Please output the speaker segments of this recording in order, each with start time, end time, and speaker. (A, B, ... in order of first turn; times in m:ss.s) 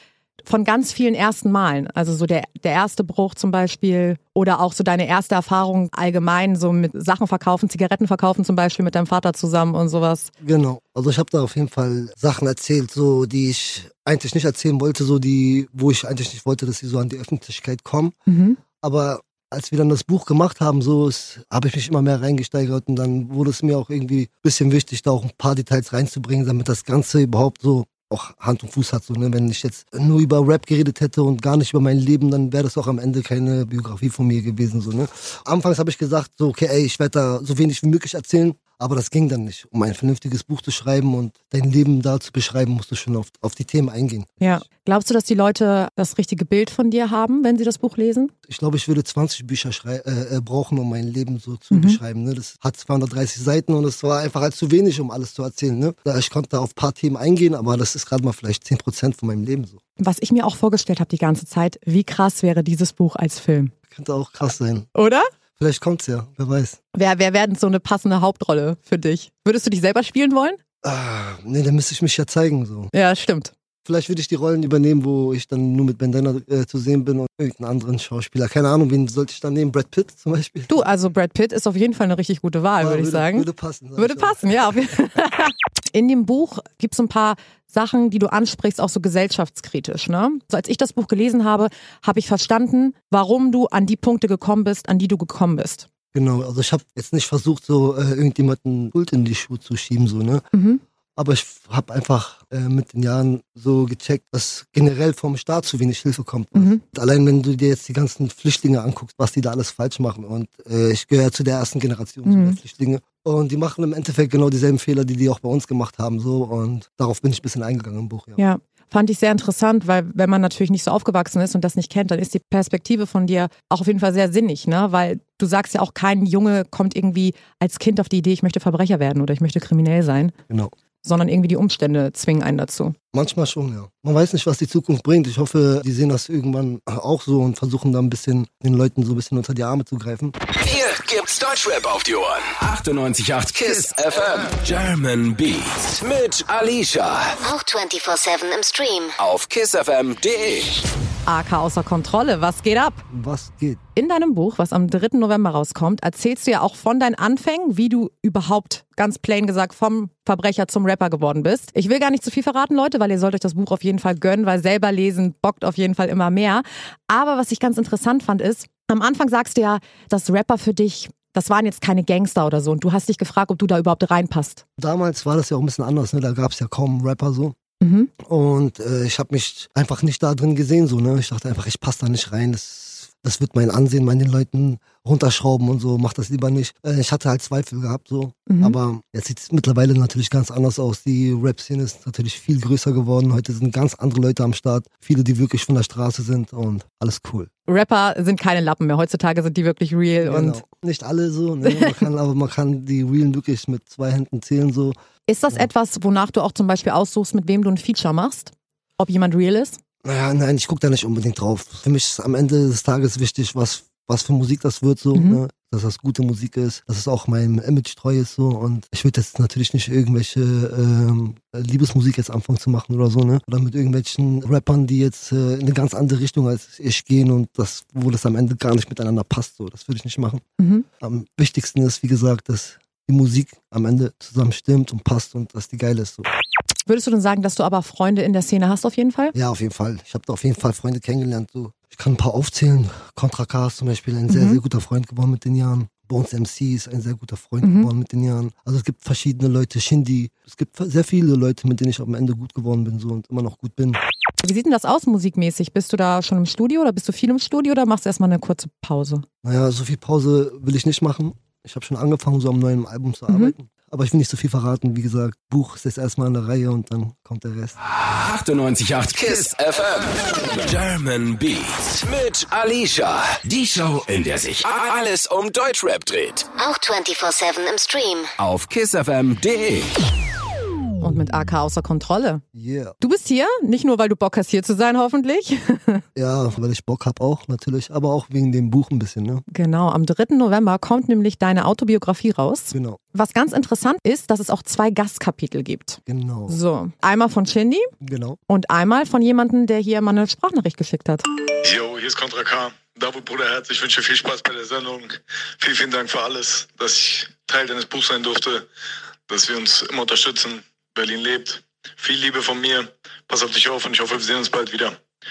0:00.4-0:10.3 A
0:10.4-0:18.1 B
0:18.3-0:18.6 A
0:18.8-0:44.6 B
0:44.4-0:48.3 A
0:48.5-0:59.8 B
0:51.7-0:52.0 A
1:00.0-1:03.7 A
1:03.9-1:04.9 B
1:04.9-1:05.3 A
1:05.6-1:06.8 B
1:06.9-1:10.6 A
1:10.8-1:12.9 B
1:12.9-1:13.5 A
1:13.8-1:20.8 B
1:20.7-1:35.8 A
1:22.8-1:24.8 B
1:36.1-1:40.4 B
1:40.5-1:40.8 A
1:41.2-1:58.4 B
1:46.5-1:46.8 A
1:52.2-1:52.6 A
1:58.4-2:10.3 A
2:11.0-2:12.9 A
2:13.1-2:20.4 B
2:20.6-2:27.4 C
2:27.4-2:29.1 D
2:29.2-2:30.8 C
2:31.2-2:33.0 A
2:33.1-2:33.8 B
2:34.0-2:54.6 A
2:54.8-2:57.6 B
2:57.8-2:58.1 A
2:58.2-3:17.5 B
3:08.5-3:08.8 A
3:17.7-3:20.6 A
3:20.2-3:25.0 B
3:21.6-3:22.0 A
3:25.3-3:29.8 A
3:30.0-3:50.4 B
3:35.1-3:35.4 A
3:50.6-3:50.8 A
3:51.0-3:56.3 B
3:56.8-3:59.3 A
3:59.3-4:14.0 B
4:04.3-4:04.6 A
4:07.6-4:07.9 A
4:14.4-4:19.2 A
4:19.4-4:27.8 B
4:23.3-4:23.5 A
4:28.0-4:36.5 C
4:36.6-4:38.3 D
4:38.4-4:39.9 C
4:41.0-4:42.4 A
4:42.5-4:42.9 B
4:43.0-4:46.0 A
4:46.2-4:49.4 B
4:49.5-4:57.9 A
4:52.7-4:53.0 B
4:56.1-4:56.6 B
4:58.0-4:58.4 B
4:58.5-5:01.2 A
5:02.0-5:05.0 E
5:05.6-5:08.6 E
5:09.3-5:14.9 E